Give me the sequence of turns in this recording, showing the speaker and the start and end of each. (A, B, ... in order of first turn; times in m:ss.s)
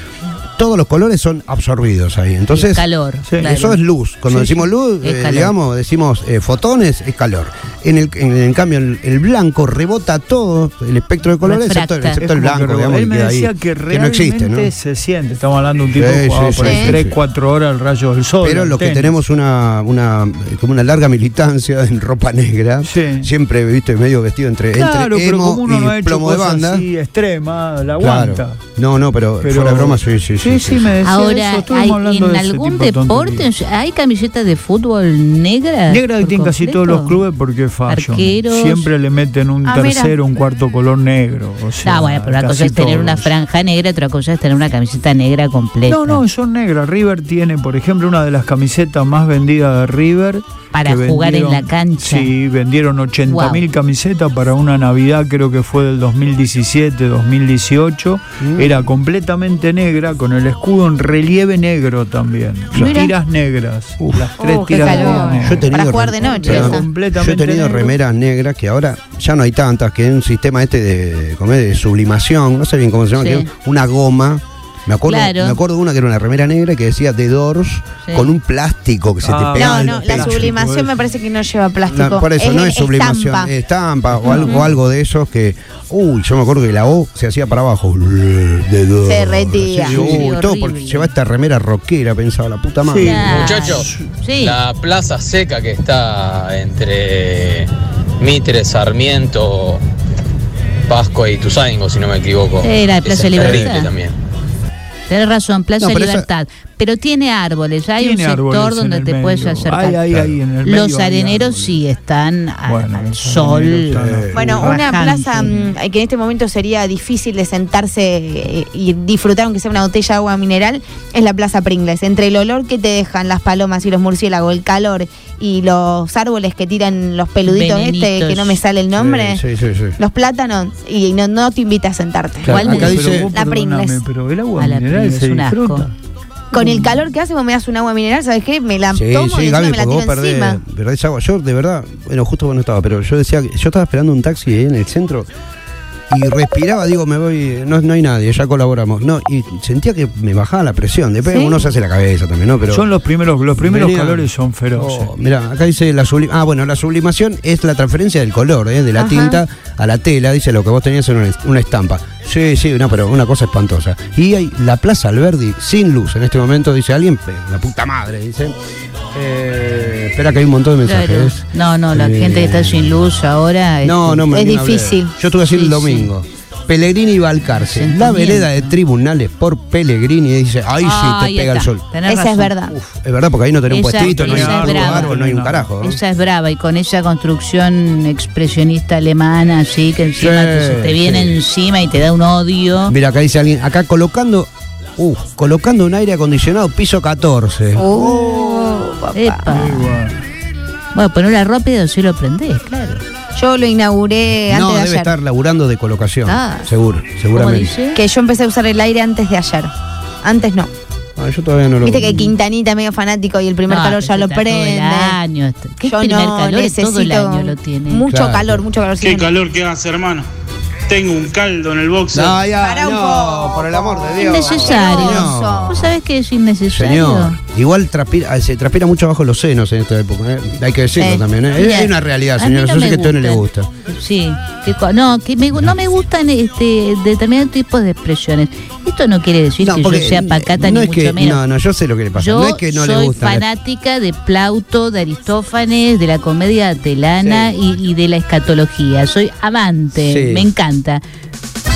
0:00.6-0:02.8 A
0:02.5-0:05.5 B
0:03.4-0:14.7 A
0:11.4-0:12.2 B
0:12.2-0:19.1 C
0:15.9-0:17.2 A
0:16.6-0:17.0 D
0:18.4-0:26.9 A
0:22.8-0:23.3 C
0:24.7-0:28.6 C
0:28.0-0:31.0 A
0:29.4-0:33.5 C
0:31.0-0:37.2 B
0:35.9-0:43.3 C
0:37.9-0:38.9 B
0:39.6-0:40.1 D
0:41.8-0:46.2 B
0:45.9-1:05.7 C
0:50.7-0:52.3 B
0:53.2-0:53.6 B
0:58.4-0:58.8 A
1:02.7-1:03.0 A
1:02.8-1:03.1 D
1:04.0-1:20.6 A
1:04.4-1:06.8 D
1:06.2-1:07.9 C
1:13.2-1:13.5 B
1:15.0-1:15.6 B
1:18.0-1:18.3 B
1:19.2-1:21.0 C
1:19.6-1:23.5 D
1:21.9-1:33.3 A
1:24.1-1:24.7 C
1:24.3-1:24.6 D
1:29.0-1:30.0 D
1:29.9-1:31.1 B
1:32.8-1:34.1 C
1:33.0-1:34.6 B
1:33.3-1:39.8 E
1:40.9-1:44.2 E
1:42.6-1:43.9 B
1:43.3-1:43.8 A
1:45.1-1:50.0 B
1:45.8-1:46.3 A
1:48.0-1:51.8 C
1:50.1-1:50.4 A
1:50.6-1:54.0 B
1:52.6-1:54.6 C
1:53.9-1:54.7 A
1:54.3-2:09.4 D
1:54.6-1:55.7 B
2:07.4-2:08.6 B
2:08.9-2:10.0 A
2:10.0-2:12.6 D
2:12.4-2:13.3 A
2:12.5-2:13.1 B
2:12.5-2:15.9 C
2:13.3-2:14.0 D
2:14.6-2:15.9 B
2:16.5-2:20.6 D
2:16.6-2:16.9 B
2:18.9-2:25.3 A
2:26.1-2:32.9 A
2:31.3-2:31.6 D
2:32.7-2:35.1 C
2:33.6-2:48.6 A
2:39.0-2:39.4 D
2:49.1-2:53.0 A
2:50.8-2:54.3 B
2:53.8-3:01.8 A
2:54.3-2:55.1 D
2:55.5-2:56.1 B
2:57.6-2:58.8 B
3:00.8-3:02.5 B
3:02.1-3:02.7 D
3:02.7-3:06.0 A
3:03.7-3:05.1 B
3:03.9-3:05.7 C
3:05.8-3:12.9 B
3:10.2-3:11.4 A
3:12.9-3:18.4 A
3:17.8-3:19.5 D
3:19.1-3:20.0 B
3:19.5-3:20.2 C
3:20.9-3:23.0 B
3:23.3-3:25.1 D
3:24.5-3:27.7 A
3:26.2-3:26.7 B
3:27.3-3:28.0 B
3:27.9-3:29.7 D
3:30.2-3:30.7 D
3:31.2-3:32.3 A
3:31.8-3:35.2 D
3:33.7-3:38.0 B
3:35.8-3:39.4 D
3:38.1-3:38.6 A
3:39.0-3:40.3 F
3:40.9-3:42.4 F
3:42.1-3:46.0 A
3:42.6-3:45.9 D
3:44.2-3:47.4 B
3:46.7-3:53.7 A
3:51.0-3:51.2 D
3:51.6-4:01.4 B
3:59.6-4:03.4 A
4:02.1-4:11.0 B
4:07.2-4:07.5 A
4:09.9-4:10.5 A